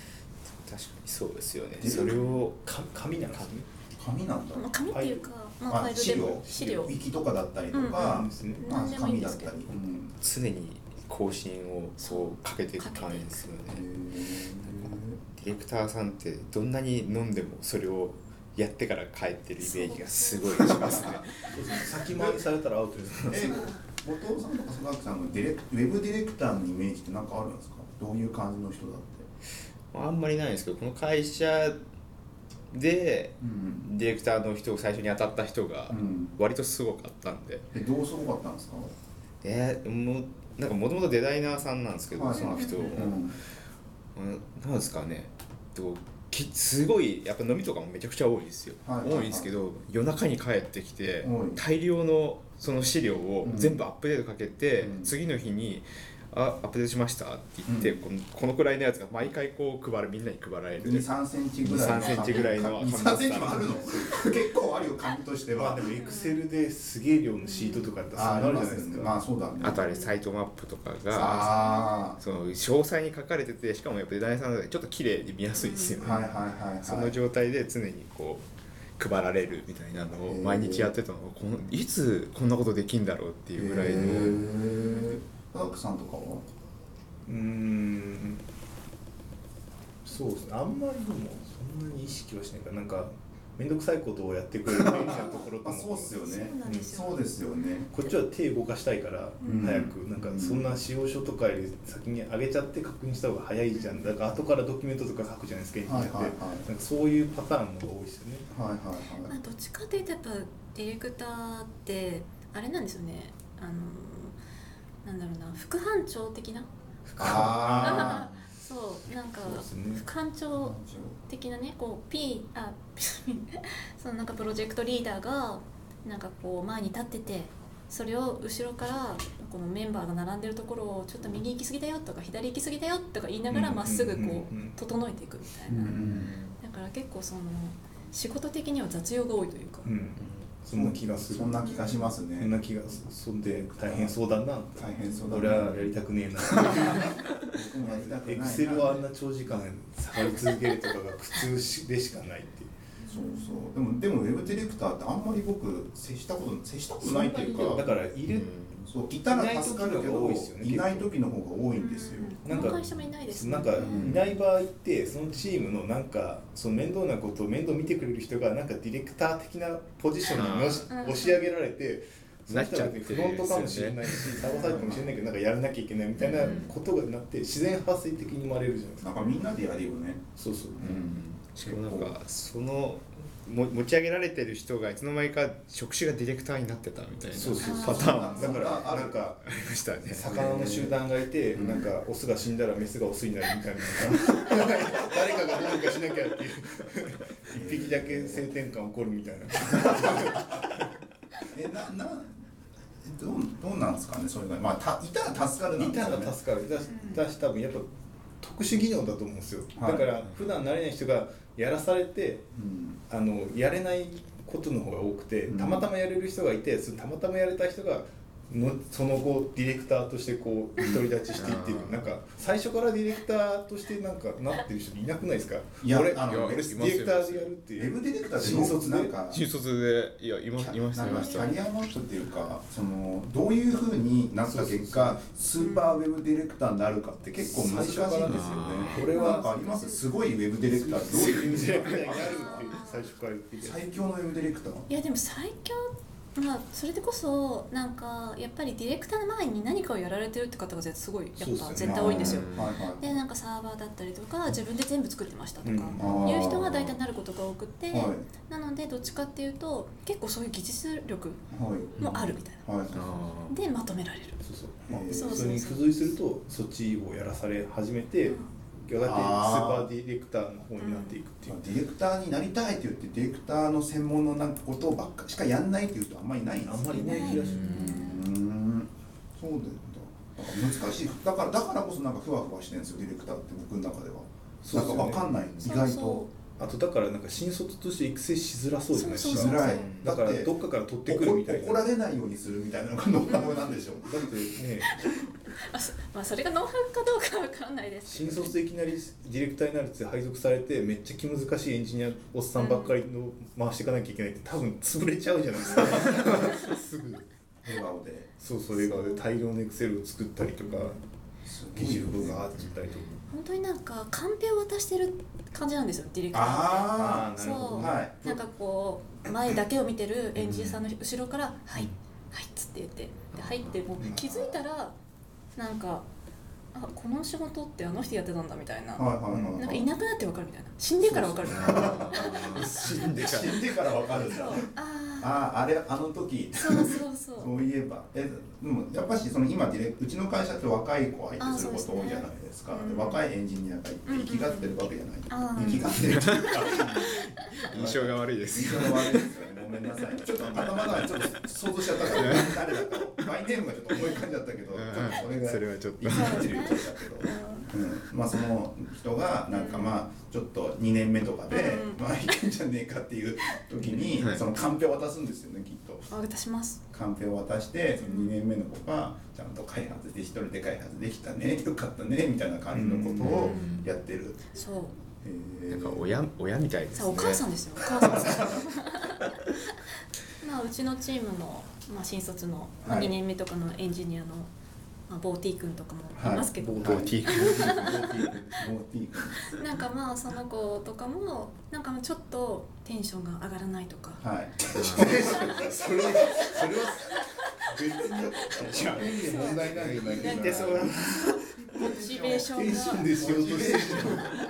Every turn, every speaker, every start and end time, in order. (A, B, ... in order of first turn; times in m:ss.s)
0:00.5-0:02.6 A
0:01.8-0:02.2 B
0:01.9-0:02.4 C
0:02.6-0:03.7 D
0:03.9-0:04.7 B
0:04.5-0:06.9 C
0:04.9-0:05.2 D
0:05.7-0:10.2 B
0:06.0-0:06.8 D
0:07.7-0:09.5 C
0:07.9-0:08.7 D
0:10.2-0:13.8 A
0:12.0-0:13.4 C
0:13.7-0:15.2 B
0:14.6-0:21.8 A
0:19.6-0:21.2 C
0:20.6-0:21.2 B
0:21.5-0:23.6 D
0:22.0-0:22.4 B
0:23.3-0:29.2 B
0:29.9-0:31.8 A
0:32.7-0:37.6 A
0:33.4-0:33.9 B
0:35.9-0:36.3 B
0:37.7-0:38.9 B
0:39.4-0:43.3 A
0:42.1-0:43.4 B
0:42.3-0:42.9 C
0:44.1-1:01.1 A
0:48.8-0:49.5 B
0:51.2-0:51.6 B
0:53.4-0:53.8 B
0:54.8-0:55.1 B
0:57.6-0:58.0 B
1:00.8-1:05.8 B
1:01.6-1:04.2 A
1:05.5-1:09.1 D
1:06.0-1:06.4 C
1:07.4-1:08.0 C
1:08.1-1:09.9 B
1:09.6-1:11.6 A
1:09.8-1:10.1 C
1:11.1-1:12.2 B
1:11.3-1:12.1 C
1:12.2-1:18.4 A
1:15.6-1:16.0 C
1:16.0-1:17.2 B
1:19.0-1:24.5 A
1:20.2-1:20.9 B
1:23.6-1:26.4 B
1:24.7-1:25.2 C
1:27.2-1:28.4 D
1:30.0-1:36.9 D
1:35.0-1:37.9 B
1:36.2-1:37.2 C
1:37.9-1:48.5 D
1:39.4-1:39.7 C
1:39.4-1:40.7 B
1:43.7-1:44.1 C
1:45.8-1:46.6 B
1:48.5-1:49.4 B
1:49.2-1:54.4 C
1:55.0-1:56.7 C
1:57.0-1:58.3 D
1:57.2-1:58.3 B
1:57.8-2:16.0 C
1:59.4-2:00.0 D
2:00.5-2:01.2 B
2:13.5-2:14.8 D
2:15.7-2:16.3 B
2:15.9-2:16.6 A
2:16.6-2:19.9 C
2:19.8-2:32.7 D
2:20.2-2:20.5 A
2:20.7-2:22.6 B
2:21.6-2:22.2 C
2:23.4-2:24.2 B
2:24.7-2:25.9 B
2:25.0-2:25.3 C
2:26.5-2:29.0 B
2:33.0-2:33.7 C
2:33.1-2:38.0 B
2:37.0-2:38.5 D
2:38.3-2:38.8 A
2:38.9-2:42.8 B
2:39.3-2:41.1 D
2:41.7-2:44.0 C
2:42.4-2:59.1 D
2:43.8-2:44.3 B
2:50.2-2:50.9 A
2:50.9-2:51.4 C
2:52.5-2:55.0 A
2:54.4-2:54.9 C
2:54.6-2:55.1 B
2:56.2-2:56.7 A
2:56.4-2:56.7 C
2:59.0-3:02.1 B
3:00.4-3:01.0 D
3:00.8-3:08.9 A
3:07.3-3:09.5 D
3:07.6-3:08.6 C
3:07.7-3:09.3 B
3:09.4-3:10.3 A
3:10.0-3:20.6 D
3:10.2-3:11.0 B
3:11.5-3:11.9 B
3:17.5-3:18.5 B
3:19.6-3:20.6 B
3:21.5-3:22.4 B
3:23.0-3:26.4 B
3:25.8-3:27.9 D
3:26.9-3:27.2 C
3:28.4-3:32.5 D
3:29.8-3:30.1 B
3:30.2-3:30.5 A
3:32.5-3:33.0 B
3:33.1-3:49.1 D
3:35.4-3:35.9 B
3:41.3-3:42.2 A
3:45.8-3:46.9 B
3:46.2-3:47.5 A
3:47.8-3:49.4 B
3:49.3-3:51.6 A
3:50.6-4:02.7 B
3:51.0-3:51.5 C
3:54.4-3:55.2 D
3:55.6-3:56.0 C
3:57.4-3:59.5 D
3:58.2-3:59.1 A
3:59.1-4:00.0 C
4:00.7-4:03.8 D
4:01.7-4:02.2 A
4:02.2-4:03.0 C
4:03.6-4:04.9 B
4:04.9-4:21.4 C
4:11.4-4:12.4 D
4:11.8-4:13.2 B
4:12.2-4:12.7 A
4:15.6-4:16.4 D
4:16.0-4:17.0 B
4:17.9-4:18.3 B
4:21.5-4:23.2 B
4:22.0-4:22.6 C
4:22.9-4:23.5 A
4:23.5-4:24.4 C
4:24.4-4:31.6 D
4:24.9-4:25.5 B
4:25.1-4:26.0 C
4:28.2-4:28.5 C
4:29.0-4:29.9 B
4:30.8-4:31.2 C
4:31.5-4:46.2 B
4:36.6-4:38.2 D
4:36.9-4:38.2 C
4:37.3-4:38.0 A
4:44.6-4:45.3 D
4:45.6-4:46.3 C
4:46.6-4:51.8 D
4:48.9-4:50.0 C
4:49.2-4:50.5 B
4:49.8-4:50.1 A
4:51.0-4:54.4 B
4:53.3-4:53.8 C
4:54.0-4:54.9 D
4:54.8-4:58.6 C
4:58.0-5:07.2 D
5:02.6-5:03.0 C
5:07.6-5:08.3 B
5:08.4-5:11.0 D
5:08.7-5:09.2 C
5:10.6-5:11.0 C
5:11.4-5:12.4 B
5:11.7-5:13.2 D
5:12.6-5:13.2 A
5:13.3-5:25.0 C
5:16.3-5:18.4 B
5:16.9-5:18.0 D
5:20.4-5:20.8 A
5:23.3-5:23.8 A
5:24.0-5:24.6 B
5:25.6-5:26.0 C
5:26.7-5:32.4 C
5:29.0-5:29.9 B
5:31.0-5:34.7 B
5:31.5-5:33.7 A
5:31.5-5:32.1 D
5:34.2-5:35.4 C
5:35.2-5:47.1 B
5:36.6-5:37.5 C
5:41.4-5:43.2 C
5:44.0-5:44.8 C
5:45.3-5:47.5 C
5:45.9-5:49.3 A
5:47.7-6:06.1 B
5:50.6-5:51.2 A
5:52.1-5:52.6 A
5:54.7-5:56.7 A
5:56.1-5:57.7 C
5:59.5-6:00.0 C
6:01.5-6:02.0 C
6:04.1-6:04.4 A
6:06.1-6:06.8 C
6:06.9-6:14.4 B
6:08.0-6:08.3 C
6:12.7-6:13.5 D
6:13.2-6:13.8 C
6:13.2-6:13.9 A
6:14.5-6:15.0 C
6:15.2-6:16.1 B
6:15.7-6:18.2 A
6:16.9-6:19.2 C
6:17.9-6:18.7 B
6:20.4-6:24.5 C
6:22.8-6:23.1 B
6:25.1-6:27.9 C
6:26.2-6:29.6 B
6:26.5-6:28.7 D
6:26.8-6:28.2 A
6:29.4-6:34.2 C
6:34.2-6:35.7 B
6:34.7-6:35.6 A
6:34.8-6:41.3 D
6:35.2-6:35.6 C
6:37.1-6:43.1 C
6:38.7-6:41.1 A
6:39.4-6:40.9 B
6:41.6-6:42.6 B
6:42.5-6:44.4 D
6:43.1-6:44.4 B